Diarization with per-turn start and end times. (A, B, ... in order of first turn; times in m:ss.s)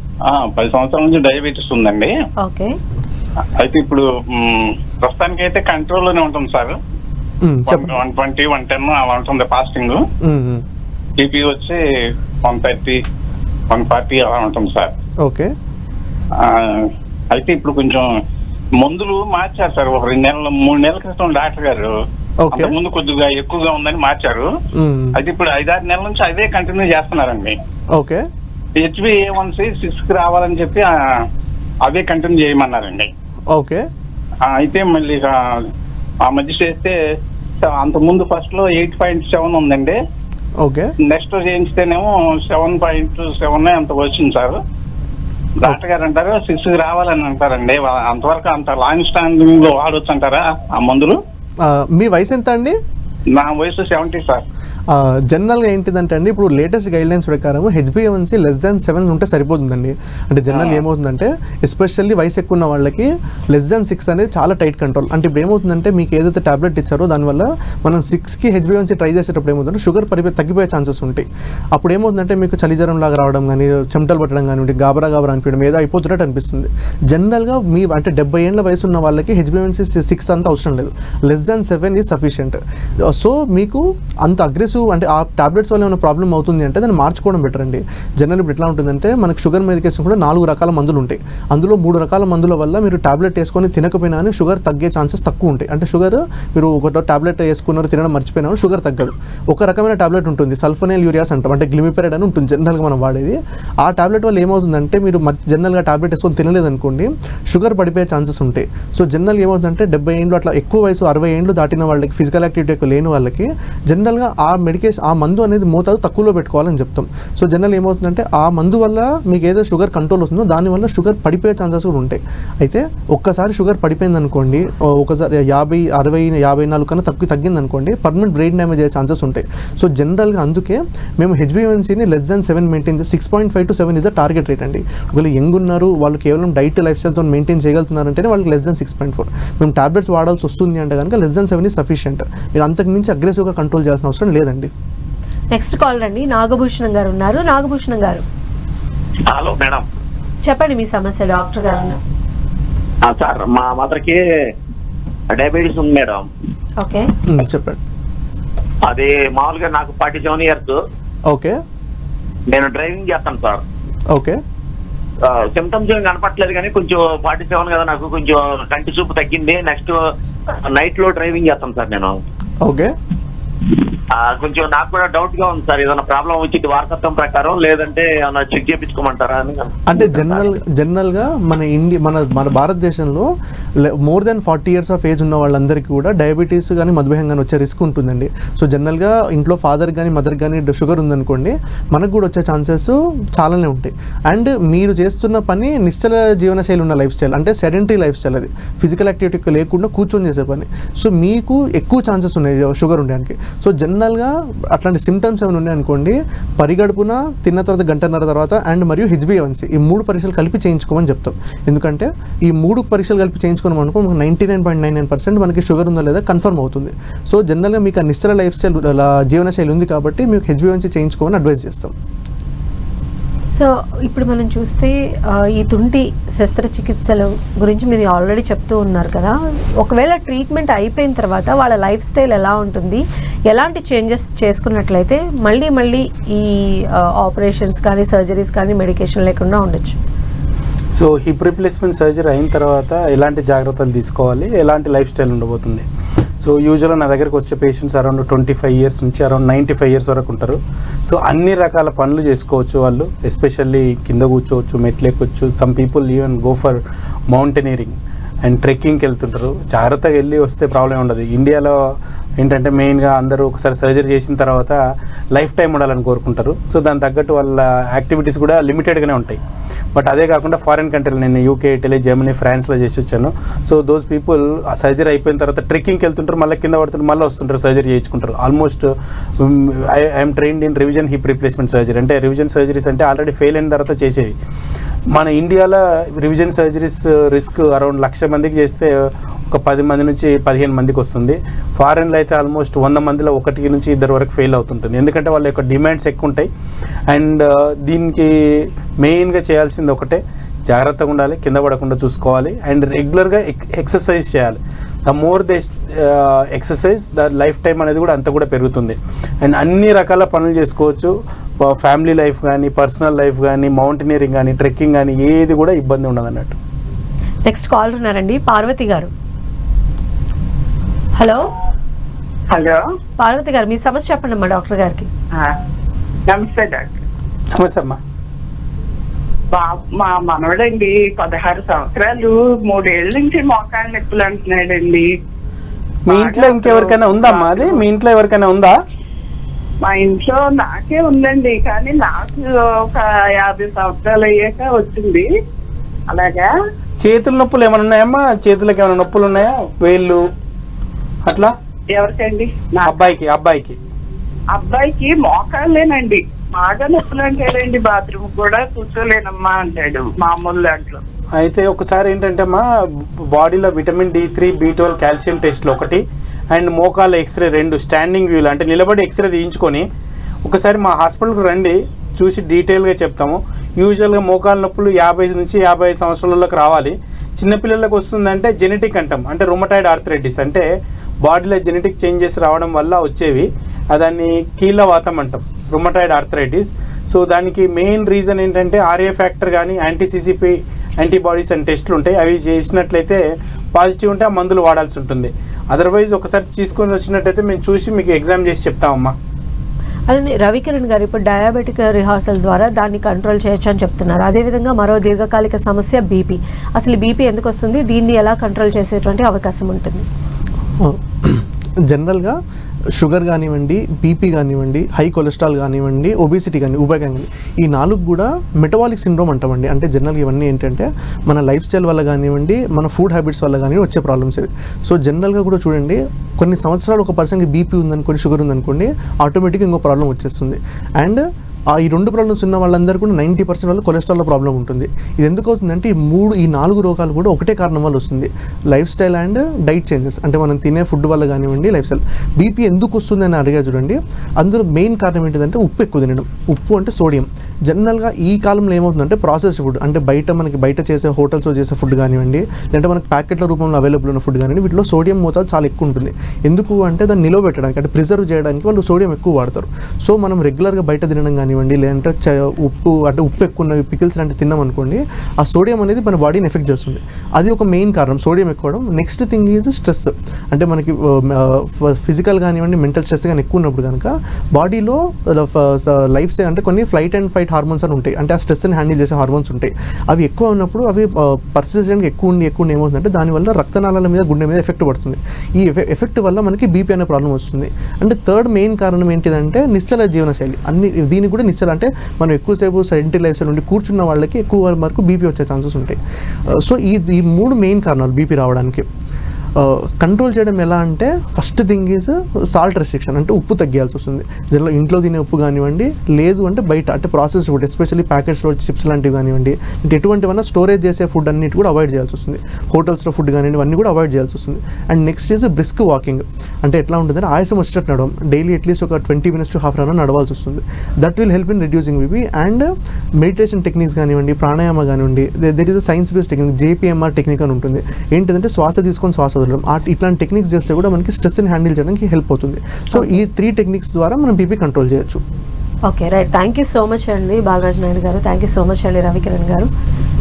0:00.3-0:02.1 A
0:02.4-0:02.8 B
0:03.6-0:06.8 A
0:07.4-0:08.0 C
0:07.7-0:10.0 A
0:10.2-0:10.6 C
0:11.2-0:11.8 A
0:12.4-0:13.0 A
0:13.7-0:14.9 A
0:15.2-0:15.5 C
0:16.4-0:18.0 A
0:18.8-0:21.9 A
0:22.4-0:22.8 C
0:22.5-0:24.5 A
0:24.8-0:25.2 C
0:25.2-0:27.6 A
0:28.0-0:28.2 C
0:28.8-0:30.9 A
0:31.8-0:33.1 A
0:33.5-0:33.8 C
0:34.4-0:35.7 A
0:36.2-0:37.0 A
0:37.6-0:40.0 A
0:40.6-0:40.9 C
0:41.1-0:44.6 A
0:45.6-0:51.2 A
0:51.6-0:52.8 C
0:53.3-0:54.4 A
0:54.9-2:24.7 C
1:00.5-1:00.8 A
2:25.5-2:28.2 B
2:29.3-2:29.8 D
2:30.4-2:32.0 B
2:33.0-2:34.2 D
2:35.3-2:36.3 D
2:36.8-2:37.1 B
2:37.3-2:37.8 C
2:38.8-2:40.8 D
2:41.3-2:41.6 C
2:42.5-2:43.6 D
2:44.1-2:44.4 C
2:45.2-2:52.2 D
2:52.6-2:52.9 C
2:54.1-3:00.4 D
2:59.9-3:03.3 C
3:03.8-3:42.0 C
3:43.6-4:00.0 B
4:00.9-4:05.8 E
4:06.4-4:16.8 E
4:17.3-4:21.8 E
4:22.4-4:24.8 E
4:25.3-4:29.4 E
4:30.0-4:44.4 E
4:45.1-4:48.9 E
4:49.5-4:56.5 E
4:57.1-5:16.6 E
5:17.5-5:19.1 B
5:21.2-5:21.4 B
5:22.5-5:22.8 F
5:23.2-5:25.1 B
5:26.3-5:27.0 F
5:27.6-5:28.0 E
5:29.5-5:35.1 F
5:36.1-5:38.8 E
5:36.1-5:37.8 F
5:39.8-5:45.3 F
5:46.1-5:46.5 F
5:47.0-5:50.2 E
5:51.3-5:51.5 E
5:51.9-5:53.0 F
5:52.8-5:53.8 E
5:54.5-6:01.0 F
6:01.4-6:02.6 E
6:03.2-6:09.9 E
6:10.4-6:20.7 E
6:21.2-6:33.2 E
6:33.7-6:39.2 E
6:40.1-6:50.1 B
6:50.8-6:52.4 C
6:53.0-7:11.2 C
7:11.8-8:16.0 C
8:16.5-8:18.9 C
8:19.6-8:42.7 C
8:43.2-8:55.2 C
8:52.9-8:53.2 B
8:55.9-8:59.7 B